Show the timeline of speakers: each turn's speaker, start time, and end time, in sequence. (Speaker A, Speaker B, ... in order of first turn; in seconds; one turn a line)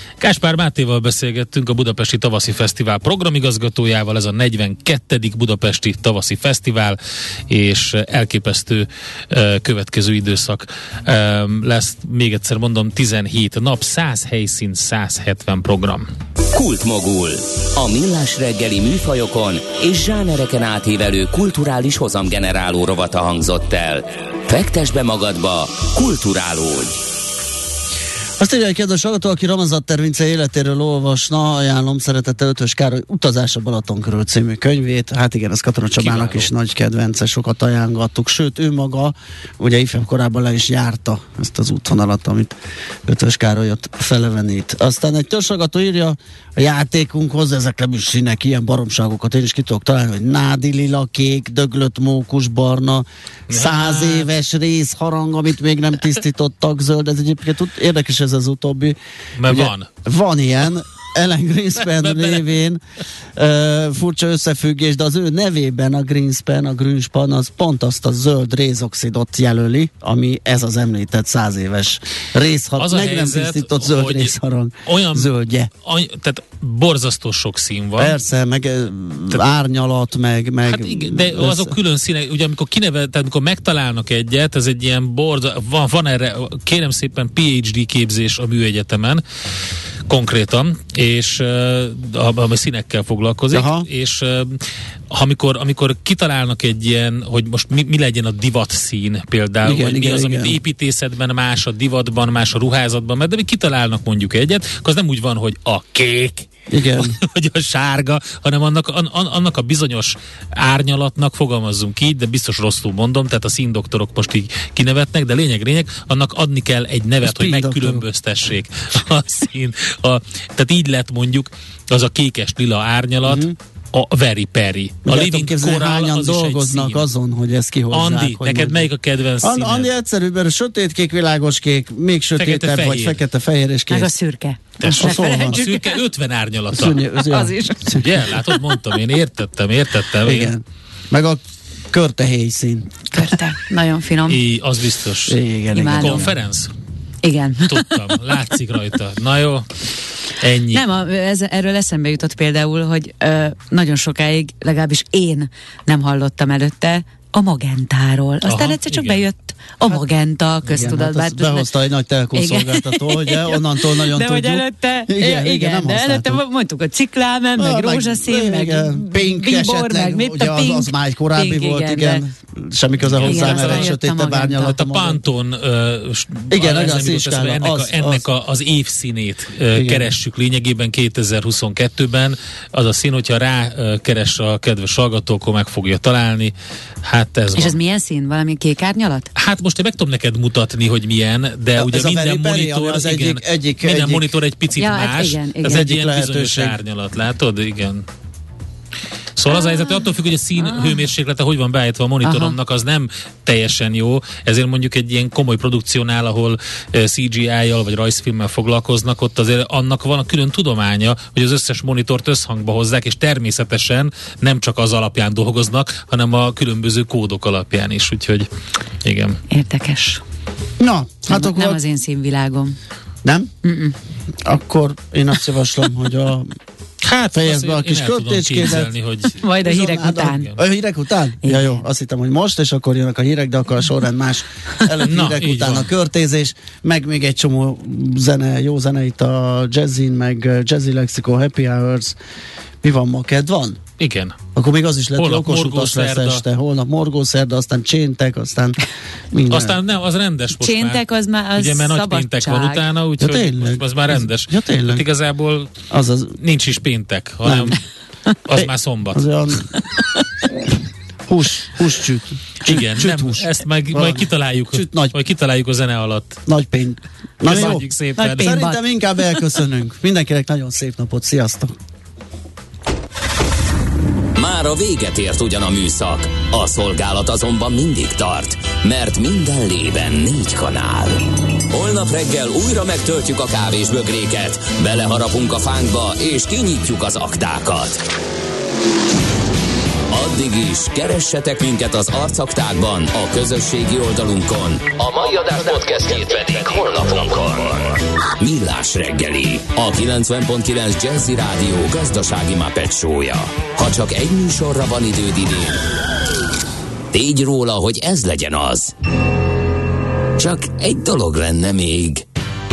Speaker A: 0.2-7.0
Speaker A: 7.5-16.1
Speaker B: 16.5-27.0
Speaker C: 28.4-42.5
Speaker A: 36.0-36.5
Speaker C: 43.0-62.8
Speaker A: 53.5-54.3
Speaker A: 59.4-59.9
Speaker A: 61.9-62.5
Speaker C: 63.4-75.7
Speaker A: 72.8-75.3
Speaker A: 75.8-78.2
Speaker C: 78.0-81.7
Speaker A: 80.7-89.2
Speaker A: 90.1-127.0
Speaker C: 93.5-93.9
Speaker C: 99.6-100.6
Speaker C: 106.7-107.2
Speaker C: 117.2-118.0
Speaker C: 123.2-123.5
Speaker C: 125.0-128.9
Speaker A: 127.9-129.9
Speaker C: 129.4-134.1
Speaker A: 132.4-133.2
Speaker D: 133.9-136.0
Speaker A: 134.8-137.0
Speaker C: 134.8-135.6
Speaker C: 136.7-138.1
Speaker D: 137.2-138.7
Speaker A: 138.0-140.5
Speaker C: 140.2-142.9
Speaker D: 143.1-144.4
Speaker A: 144.3-145.4
Speaker C: 145.3-146.3
Speaker D: 145.7-146.3
Speaker A: 145.9-146.7
Speaker D: 147.2-148.2
Speaker A: 147.7-149.7
Speaker A: 150.4-150.8
Speaker D: 150.7-161.7
Speaker A: 158.4-159.2
Speaker C: 160.6-166.4
Speaker D: 162.3-172.2
Speaker C: 167.6-175.2
Speaker A: 173.0-174.0
Speaker D: 173.2-174.8
Speaker A: 174.6-187.8
Speaker C: 176.5-178.2
Speaker C: 179.7-180.1
Speaker D: 187.6-189.3
Speaker A: 189.3-198.1
Speaker C: 191.8-194.3
Speaker D: 194.8-195.9
Speaker C: 195.6-196.8
Speaker A: 199.4-218.5
Speaker D: 199.5-201.1
Speaker D: 202.2-202.6
Speaker A: 219.0-219.4
Speaker D: 219.5-220.2
Speaker C: 220.8-221.8
Speaker D: 221.3-222.8
Speaker C: 223.2-223.5
Speaker D: 223.6-223.9
Speaker C: 224.4-226.5
Speaker A: 227.0-229.4
Speaker C: 227.3-228.9
Speaker D: 229.4-230.5
Speaker C: 229.6-242.2
Speaker D: 231.4-231.8
Speaker A: 235.1-235.9
Speaker C: 242.8-243.8
Speaker A: 244.0-244.4
Speaker C: 244.5-248.8
Speaker A: 245.2-246.4
Speaker C: 249.3-249.8
Speaker A: 249.5-251.0
Speaker D: 250.6-252.8
Speaker A: 251.5-255.7
Speaker C: 253.2-255.0
Speaker C: 255.9-256.3
Speaker A: 256.4-257.8
Speaker C: 257.4-257.8
Speaker A: 258.4-259.6
Speaker C: 258.6-259.7
Speaker C: 261.3-265.1
Speaker A: 262.6-266.4
Speaker C: 266.5-271.7
Speaker A: 267.4-268.6
Speaker D: 267.5-269.5
Speaker B: 274.3-288.0
Speaker B: 290.1-305.8
Speaker B: 307.1-308.9
Speaker B: 310.4-312.2